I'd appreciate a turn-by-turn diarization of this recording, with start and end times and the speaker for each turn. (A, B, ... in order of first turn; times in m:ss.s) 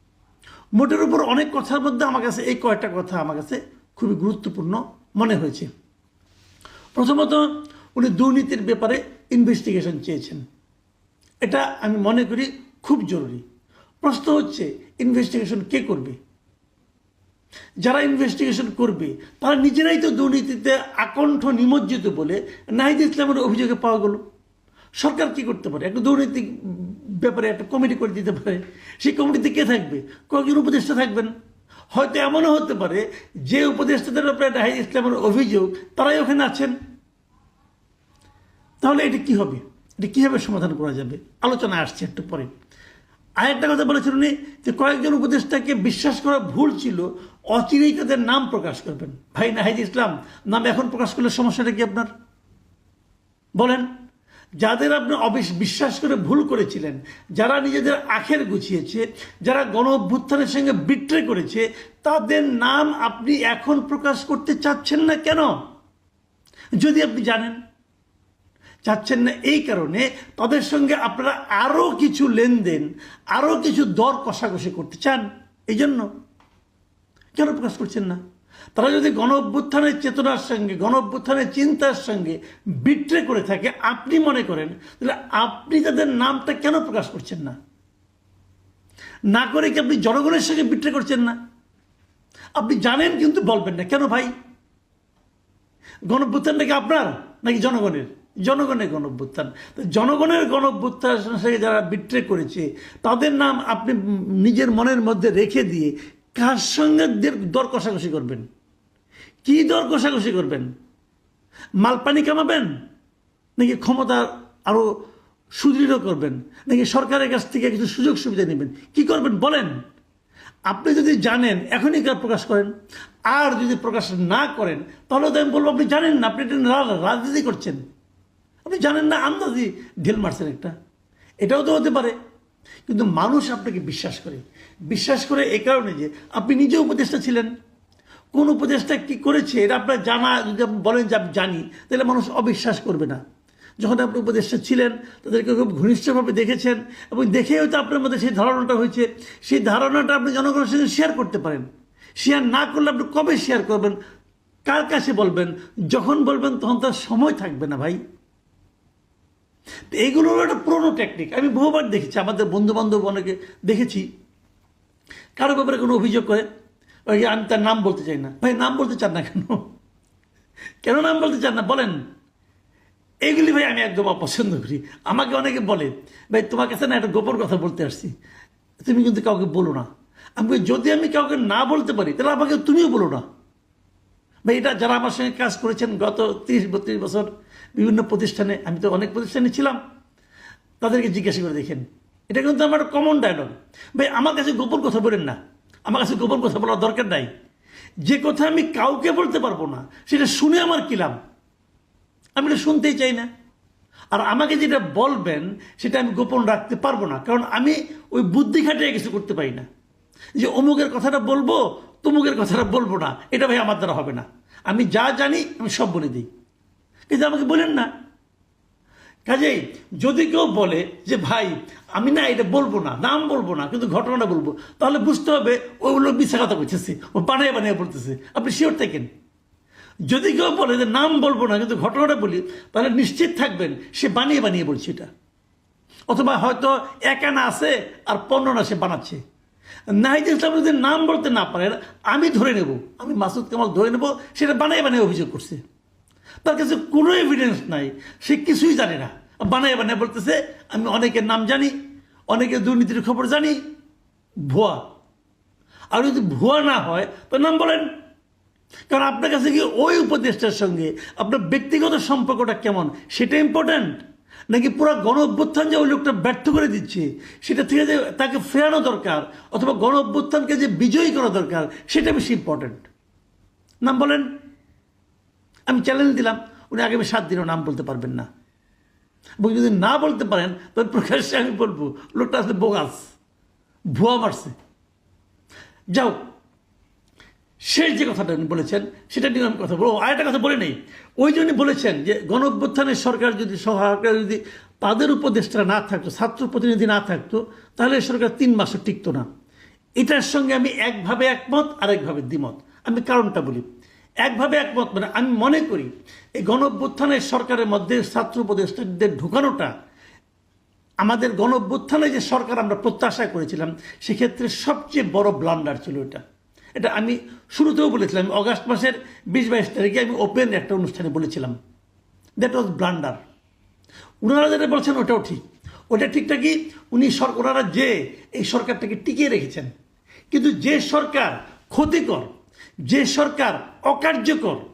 0:00.8-0:05.7 A
0:07.0-0:10.4 A
0:11.4-0:13.4 A
0:14.0-0:16.2 A
0:17.8-0:24.2 A
0:25.0-0:31.3 A
0:31.9-0:36.8 A
0:38.8-0:42.5 A
0:43.4-0:52.1 A
0:53.6-0:53.9 A
0:54.6-1:05.5 A
1:06.8-1:07.6 A
1:08.8-1:16.1 A
1:17.4-1:18.2 A
1:18.8-1:27.6 A
1:29.3-1:31.4 A
1:32.6-1:34.3 A
1:36.1-1:48.5 A
1:49.4-1:50.7 A
1:51.8-1:52.7 A
1:53.6-1:54.9 A
1:55.6-1:59.7 A
2:00.7-2:02.7 A
2:03.3-2:07.8 A
2:08.6-2:10.7 A
2:11.4-2:12.2 A
2:12.9-2:17.5 A
2:18.3-2:23.2 A
2:23.8-2:31.7 A
2:32.2-2:34.0 A
2:34.7-2:38.0 A
2:39.9-2:44.1 A
2:45.4-2:46.5 A
2:47.1-2:49.7 A
2:50.8-2:52.0 A
2:53.2-2:58.1 A
2:58.8-3:03.2 A
3:04.5-3:09.8 A
3:10.8-3:17.3 A
3:18.1-3:21.2 A
3:22.4-3:23.3 A
3:24.1-3:29.7 A
3:30.4-3:36.3 A
3:37.1-3:37.9 A
3:39.3-3:49.1 A
3:50.1-3:55.1 A
3:56.1-3:59.2 A
3:59.9-4:05.6 A
4:06.4-4:11.7 A
4:12.3-4:13.6 A
4:14.5-4:14.8 A
4:15.9-4:17.9 A
4:18.9-4:24.0 A
4:24.5-4:32.9 A
4:33.8-4:34.3 A
4:35.7-4:38.3 A
4:39.4-4:43.0 A
4:43.9-4:44.5 A
4:47.7-4:59.3 A
5:00.0-5:03.6 A
5:04.2-5:09.7 A
5:11.0-5:16.2 A
5:16.8-5:21.6 A
5:22.4-5:23.2 A
5:24.2-5:29.7 A
5:30.3-5:32.3 A
5:32.9-5:34.6 A